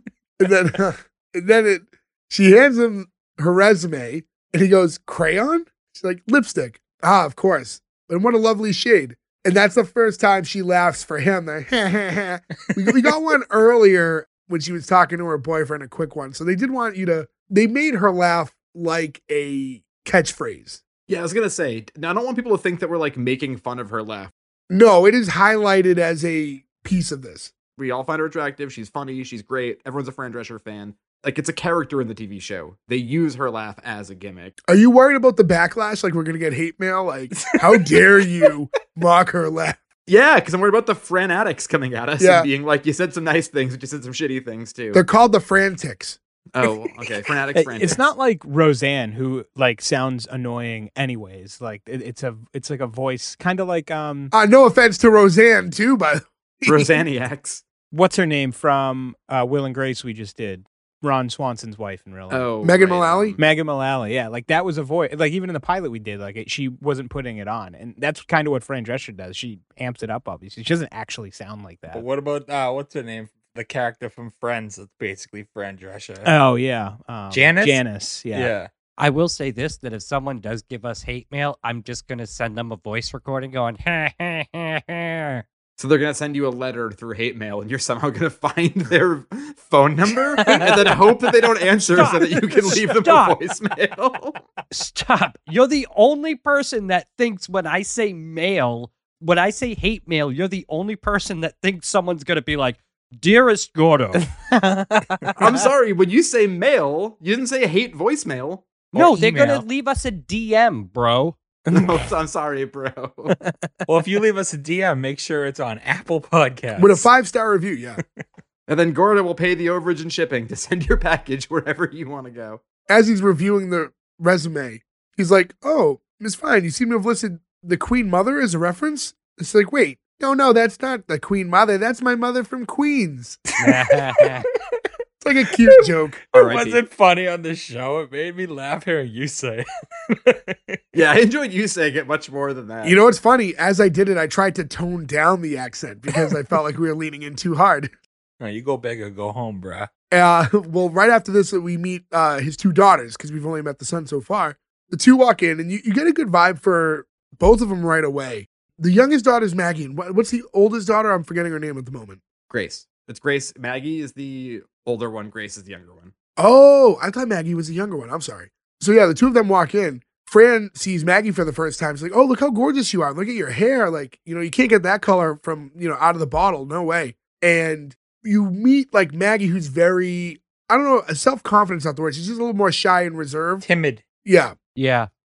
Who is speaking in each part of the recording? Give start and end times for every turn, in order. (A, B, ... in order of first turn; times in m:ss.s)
0:00.4-0:20.8 A
0:21.1-0:24.3 B
0:24.7-0:27.5 A
0:27.8-0:34.5 B
0:34.7-0:39.8 A
0:40.1-0:45.0 B
0:42.2-0:42.5 A
0:44.9-0:46.2 A
0:46.5-0:48.0 B
0:47.5-0:54.3 C
0:54.3-0:56.9 A
0:56.7-0:57.6 B
0:57.9-1:02.5 C
1:02.3-1:03.4 B
1:02.6-1:03.4 A
1:03.4-1:12.0 C
1:11.9-1:16.3 D
1:16.2-1:18.5 C
1:17.3-1:18.7 D
1:19.0-1:25.4 E
1:25.8-1:34.4 B
1:30.4-1:31.1 E
1:31.9-1:33.4 E
1:34.7-1:44.3 E
1:44.6-1:45.4 C
1:45.4-1:49.2 B
1:48.9-1:51.4 E
1:51.7-1:53.4 B
1:53.5-1:53.8 C
1:53.9-1:57.1 D
1:56.8-1:58.0 A
1:58.7-2:02.6 B
2:02.9-2:13.4 A
2:13.6-2:14.5 E
2:13.6-2:14.3 D
2:15.2-2:16.2 A
2:16.3-2:20.8 D
2:16.3-2:16.8 B
2:20.9-2:23.0 B
2:22.8-2:27.9 A
2:28.4-2:29.9 D
2:30.1-2:42.2 A
2:42.5-2:46.1 B
2:46.4-3:03.6 A
3:03.6-3:04.0 D
3:04.2-3:04.5 A
3:04.8-3:05.1 E